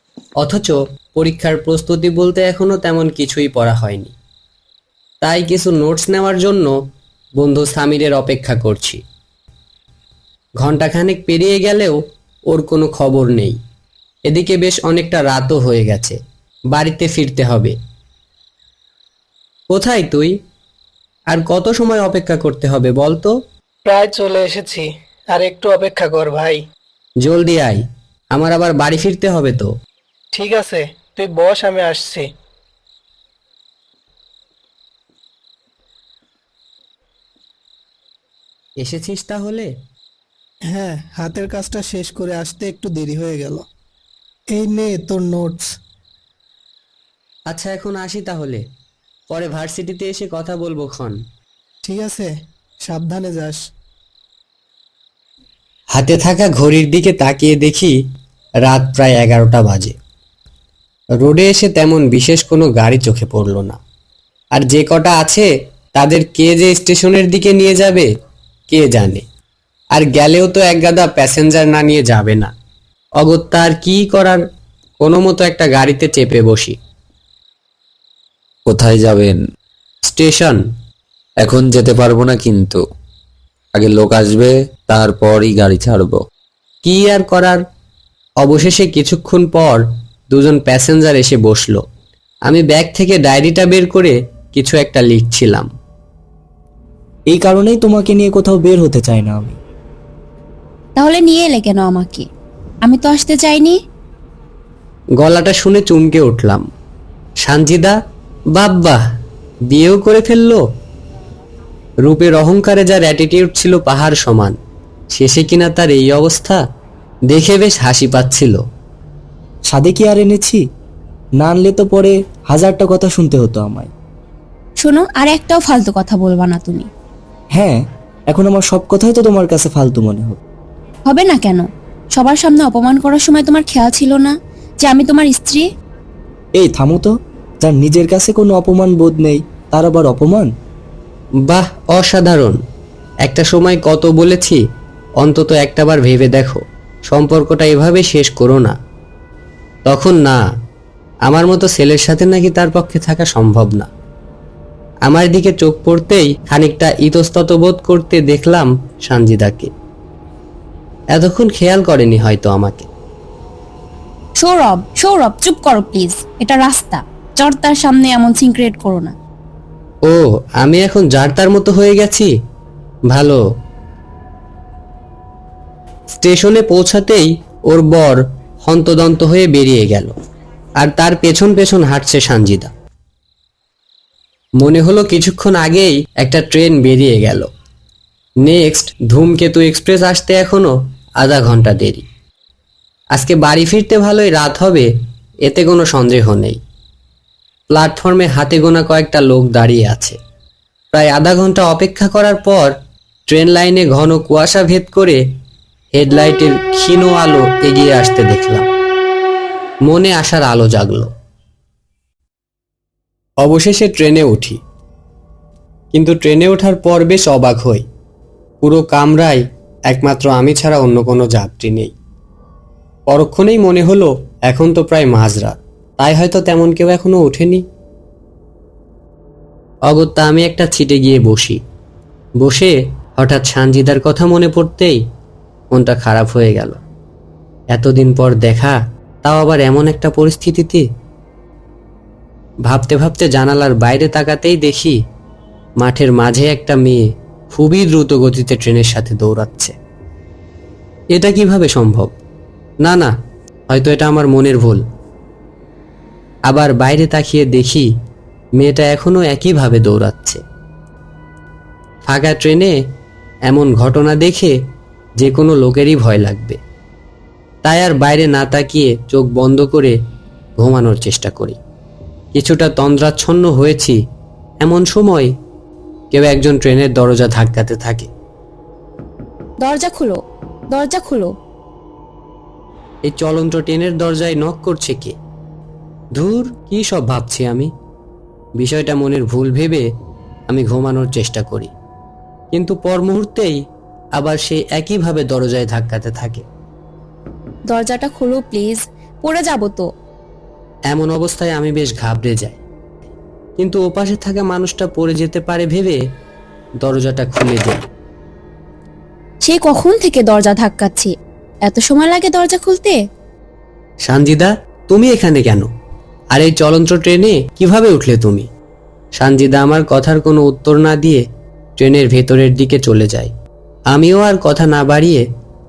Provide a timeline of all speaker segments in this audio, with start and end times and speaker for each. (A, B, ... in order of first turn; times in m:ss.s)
0:00.4-0:04.1 A
0:05.2-0:06.7 A
0:07.4-0:09.0 A
0:10.6-0:12.0 A
0:12.5-0:13.6 A
0:14.3-0:16.2 A
0:16.7-0:17.8 A
0:19.7-0:20.3 A
0:21.3-0:23.3 A
0:23.8-0:26.6 B
0:27.2-0:29.7 A
0:30.3-0:32.3 B
0:38.8-0:39.7 A
0:40.7-0:43.6 C
0:44.5-0:45.6 C
0:47.5-0:48.6 A
0:49.3-0:51.2 A
0:51.8-0:52.3 C
0:52.8-0:53.6 C
0:55.9-0:58.0 A
0:58.6-1:00.0 A
1:01.2-1:03.8 A
1:04.5-1:08.1 A
1:08.7-1:09.2 A
1:09.9-1:12.5 A
1:13.2-1:14.4 A
1:15.0-1:16.8 A
1:18.6-1:19.4 D
1:20.0-1:20.6 A
1:21.4-1:22.8 D
1:23.7-1:26.2 D
1:26.8-1:27.6 A
1:28.4-1:31.8 A
1:32.5-1:35.7 A
1:37.3-1:39.6 E
1:41.0-1:42.2 F
1:42.8-1:43.8 F
1:45.2-1:46.6 A
1:47.4-1:48.0 A
1:48.5-1:49.0 A
1:49.7-1:50.6 A
1:52.0-1:54.6 A
1:55.1-1:56.6 A
1:57.3-1:58.6 A
1:59.7-2:00.6 E
2:01.4-2:03.9 E
2:04.8-2:06.9 F
2:07.5-2:10.4 E
2:11.1-2:15.6 F
2:16.5-2:17.1 E
2:17.6-2:20.5 E
2:21.5-2:22.6 A
2:23.2-2:24.6 A
2:25.2-2:28.7 A
2:29.8-2:30.4 A
2:31.2-2:33.9 A
2:35.1-2:39.7 A
2:41.1-2:42.9 A
2:44.4-2:49.1 F
2:50.0-2:52.3 A
2:53.1-2:53.4 A
2:56.1-3:00.1 A
3:00.8-3:02.7 A
3:04.6-3:07.5 A
3:08.4-3:12.0 A
3:13.1-3:14.9 A
3:15.4-3:16.6 A
3:17.7-3:20.2 A
3:20.9-3:22.7 A
3:23.3-3:25.2 A
3:25.9-3:28.7 A
3:29.9-3:31.1 A
3:33.4-3:34.6 A
3:35.9-3:37.8 A
3:38.6-3:41.9 A
3:43.1-3:47.6 A
3:49.9-3:51.6 A
3:52.4-3:55.0 A
3:55.7-3:56.8 A
3:57.7-4:00.8 A
4:02.7-4:05.0 A
4:05.8-4:09.7 A
4:11.1-4:12.1 A
4:12.8-4:13.1 A
4:13.7-4:14.8 A
4:16.5-4:17.9 A
4:18.6-4:20.4 A
4:22.0-4:22.7 A
4:23.5-4:24.6 A
4:25.2-4:26.6 A
4:27.6-4:30.0 A
4:30.6-4:31.6 A
4:32.3-4:34.0 A
4:34.6-4:35.3 A
4:36.1-4:38.1 A
4:39.6-4:40.2 F
4:40.7-4:41.3 F
4:43.0-4:45.1 A
4:46.2-4:47.7 A
4:48.6-4:49.8 A
4:50.5-4:51.7 A
4:52.5-4:53.6 A
4:54.2-4:56.4 A
4:57.7-4:59.8 F
5:00.9-5:02.6 A
5:03.6-5:06.0 A
5:06.8-5:07.8 A
5:09.4-5:11.1 F
5:11.6-5:13.0 F
5:14.0-5:15.7 A
5:16.3-5:18.5 A
5:19.2-5:21.2 A
5:21.8-5:23.3 A
5:23.9-5:25.2 A